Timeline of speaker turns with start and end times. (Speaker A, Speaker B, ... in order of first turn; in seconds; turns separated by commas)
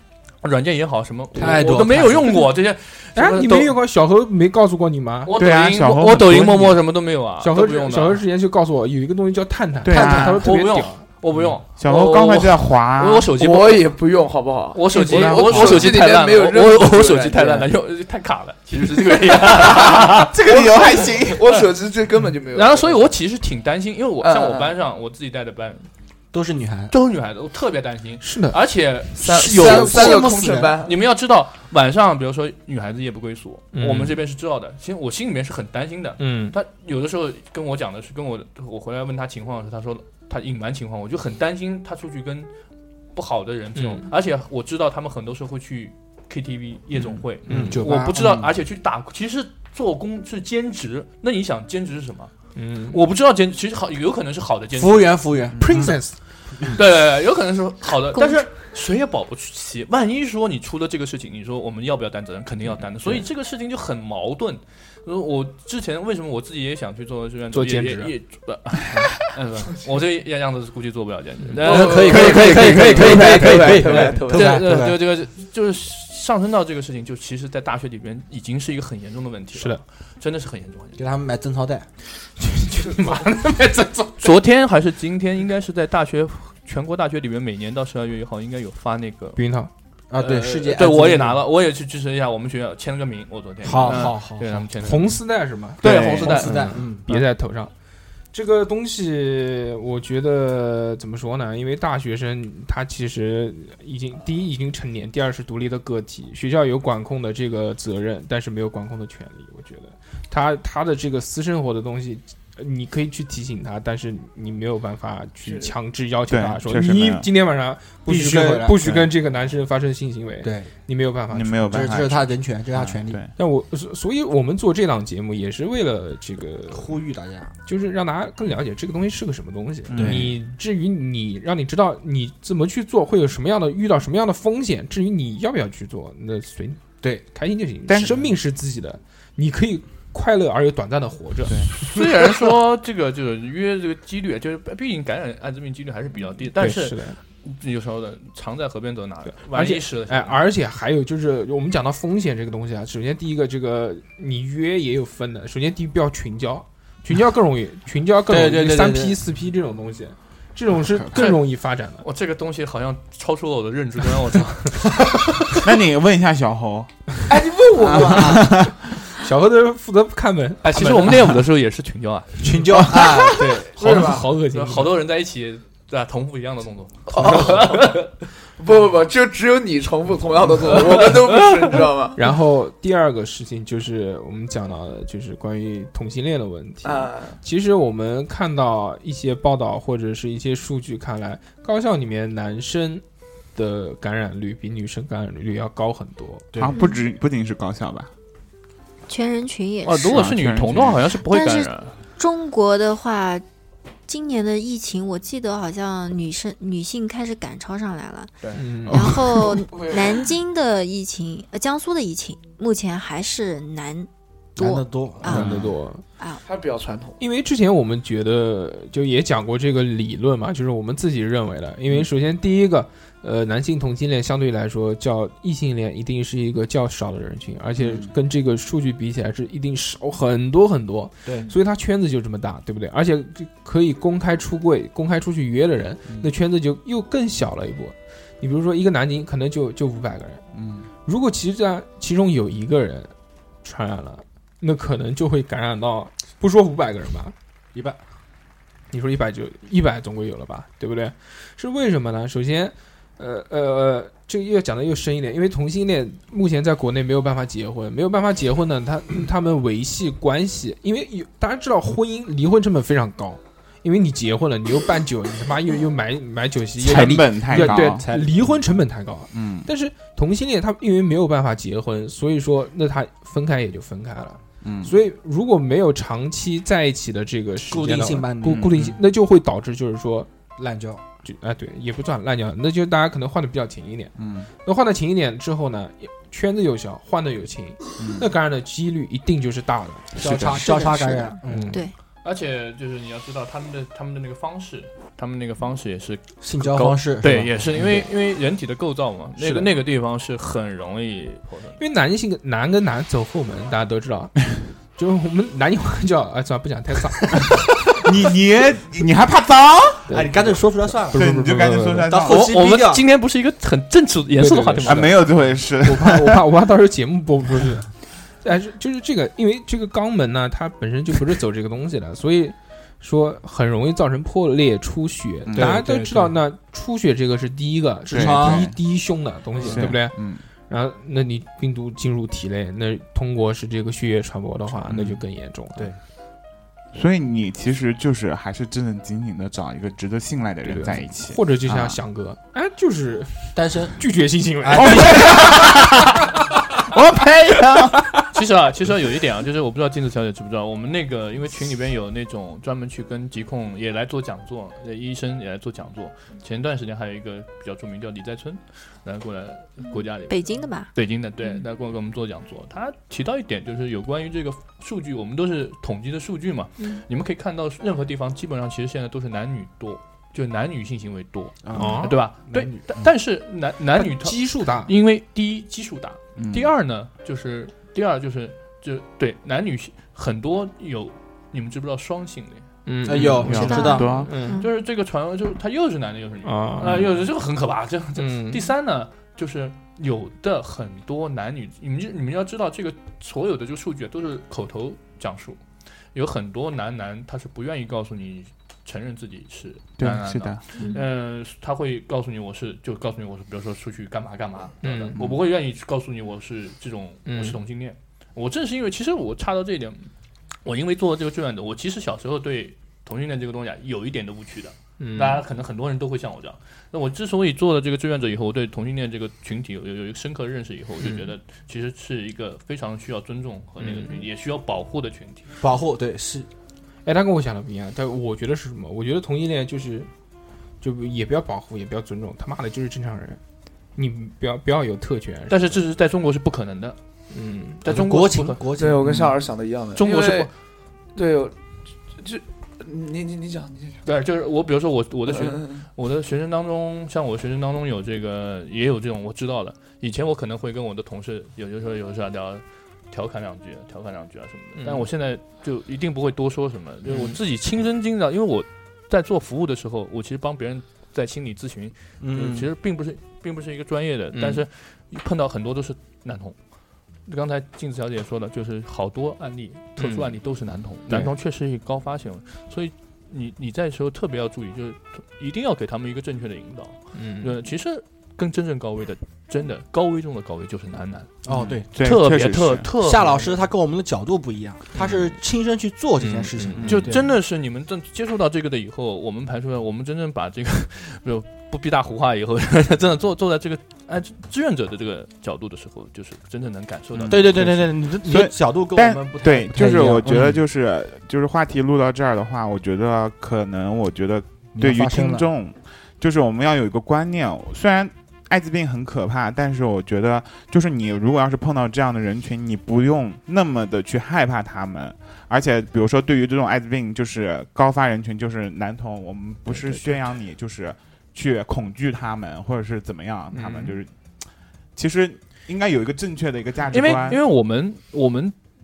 Speaker A: 0.4-3.8, Speaker B: 1.3-2.4, Speaker C: 3.1-5.3, Speaker A: 5.2-8.2, Speaker D: 5.3-6.8, Speaker C: 7.4-11.0, Speaker D: 9.8-10.4, Speaker B: 9.9-10.4, Speaker A: 10.1-13.9, Speaker D: 11.5-13.3, Speaker E: 13.3-17.7, Speaker A: 14.7-20.3, Speaker D: 15.0-15.9, Speaker D: 19.7-21.5, Speaker E: 20.4-23.1, Speaker A: 22.5-25.9, Speaker E: 24.2-24.7, Speaker B: 26.3-26.9, Speaker A: 26.9-42.5, Speaker C: 28.2-28.6, Speaker E: 29.2-30.9, Speaker B: 29.4-30.8, Speaker C: 33.7-34.2, Speaker C: 36.2-36.5, Speaker A: 43.1-52.3, Speaker C: 43.8-44.0, Speaker C: 47.5-47.8, Speaker B: 47.5-48.5, Speaker C: 52.5-53.0, Speaker A: 52.9-55.1, Speaker B: 54.7-56.0, Speaker D: 55.5-55.9, Speaker C: 55.6-56.1, Speaker A: 56.7-81.0, Speaker C: 67.5-68.1, Speaker B: 71.6-74.9, Speaker E: 71.7-74.6, Speaker C: 79.5-79.8, Speaker B: 81.0-81.9, Speaker C: 82.4-84.3, Speaker A: 84.2-89.4, Speaker C: 89.3-89.7, Speaker B: 90.1-91.4, Speaker A: 90.1-95.2, Speaker B: 93.6-94.6, Speaker C: 94.8-97.7, Speaker A: 95.8-96.8, Speaker D: 95.8-96.5, Speaker B: 95.8-97.2, Speaker C: 98.3-122.0, Speaker E: 115.4-115.7, Speaker D: 116.3-117.3, Speaker B: 118.0-118.9, Speaker D: 118.8-119.1, Speaker B: 120.4-120.7, Speaker D: 121.3-123.3, Speaker B: 121.7-123.2, Speaker C: 123.3-126.9, Speaker B: 126.7-127.5, Speaker C: 127.6-142.0, Speaker D: 129.9-130.4, Speaker B: 129.9-130.3, Speaker D: 137.9-138.2, Speaker A: 141.8-150.4, Speaker C: 146.6-147.2, Speaker C: 149.4-162.0, Speaker B: 158.3-159.2, Speaker D: 160.8-161.2, Speaker A: 161.1-161.5, Speaker A: 162.0-165.1, Speaker D: 165.6-167.1, Speaker E: 167.3-168.4, Speaker D: 167.8-168.8, Speaker B: 167.8-168.4, Speaker C: 169.2-171.4, Speaker A: 170.6-172.6, Speaker B: 172.4-173.7, Speaker C: 173.3-174.9, Speaker E: 173.8-174.3, Speaker A: 174.4-178.1, Speaker E: 177.2-177.8, Speaker C: 177.2-177.5, Speaker E: 178.6-182.2, Speaker C: 182.1-196.5, Speaker E: 186.8-187.4, Speaker D: 196.5-198.1, Speaker F: 199.1-200.3, Speaker A: 199.8-201.9, Speaker D: 200.1-201.1, Speaker F: 201.2-203.4, Speaker F: 204.1-215.5, Speaker C: 208.5-209.2, Speaker E: 209.7-210.2, Speaker B: 214.6-215.6, Speaker C: 215.2-216.0, Speaker D: 215.3-215.7, Speaker E: 216.4-217.2, Speaker C: 217.2-240.4, Speaker D: 227.8-228.1, Speaker B: 231.2-231.5, Speaker D: 240.5-240.9, Speaker C: 241.0-243.1, Speaker C: 243.6-247.3, Speaker B: 247.7-248.0, Speaker C: 248.9-280.3, Speaker D: 266.8-268.1, Speaker B: 267.4-268.5, Speaker D: 269.3-269.7, Speaker D: 274.6-274.9, Speaker B: 277.7-278.9, Speaker D: 278.4-279.0, Speaker B: 280.6-281.0, Speaker C: 281.2-290.1, Speaker D: 284.2-284.5, Speaker D: 288.0-288.2, Speaker B: 290.1-291.8, Speaker D: 290.2-290.6, Speaker F: 290.4-291.9, Speaker C: 291.4-291.8, Speaker A: 292.2-301.8, Speaker B: 296.4-298.1, Speaker C: 299.4-299.7, Speaker C: 301.8-307.6, Speaker D: 307.9-310.5, Speaker C: 310.1-312.1, Speaker B: 310.1-313.0, Speaker D: 311.1-312.5, Speaker A: 312.2-315.2, Speaker C: 314.4-335.9, Speaker D: 314.9-316.4, Speaker D: 325.4-325.8, Speaker B: 325.5-326.4, Speaker B: 328.1-328.8, Speaker D: 328.1-328.8, Speaker B: 329.6-330.0, Speaker D: 329.7-330.4, Speaker D: 334.9-335.2, Speaker D: 336.9-342.0, Speaker C: 340.6-345.6, Speaker B: 343.5-344.0, Speaker B: 344.6-345.5, Speaker D: 344.7-348.1, Speaker A: 348.3-382.7, Speaker F: 360.3-360.9, Speaker B: 371.7-372.0, Speaker C: 371.7-372.2, Speaker C: 373.9-374.9, Speaker D: 376.4-376.7, Speaker C: 382.9-384.6, Speaker B: 383.0-384.1, Speaker D: 383.1-384.3, Speaker F: 383.5-384.7, Speaker A: 384.5-395.6, Speaker C: 386.4-387.0, Speaker D: 386.8-387.2, Speaker C: 388.1-388.7, Speaker A: 396.1-410.1, Speaker D: 400.0-400.6, Speaker F: 400.8-401.0, Speaker C: 404.8-405.1, Speaker D: 405.1-405.4, Speaker C: 407.2-407.6, Speaker A: 410.6-425.5, Speaker C: 415.0-415.4, Speaker C: 421.0-421.3, Speaker C: 423.8-424.2, Speaker B: 425.6-426.5, Speaker C: 427.0-430.1, Speaker C: 430.8-433.4, Speaker C: 433.9-435.8, Speaker A: 435.5-437.0, Speaker C: 437.3-437.8, Speaker A: 437.8-438.6, Speaker B: 437.8-439.2, Speaker E: 438.8-440.5, Speaker D: 439.0-439.3, Speaker A: 439.9-440.5, Speaker E: 441.1-441.5, Speaker E: 442.1-444.0, Speaker A: 444.0-466.6, Speaker E: 445.3-445.8, Speaker C: 454.8-455.1, Speaker C: 457.1-457.3, Speaker B: 462.2-462.7, Speaker C: 464.3-464.6, Speaker A: 467.2-481.3, Speaker C: 470.0-470.4, Speaker C: 477.1-477.5, Speaker B: 481.4-481.9, Speaker D: 481.5-482.9, Speaker A: 481.9-483.5, Speaker B: 483.0-487.3, Speaker C: 486.2-487.0, Speaker D: 486.8-487.1, Speaker A: 486.8-497.9, Speaker D: 497.1-497.5, Speaker B: 497.3-500.6, Speaker D: 498.2-524.1, Speaker B: 504.7-505.5, Speaker C: 519.7-520.1, Speaker C: 523.5-524.0, Speaker D: 525.0-527.4, Speaker A: 526.9-528.5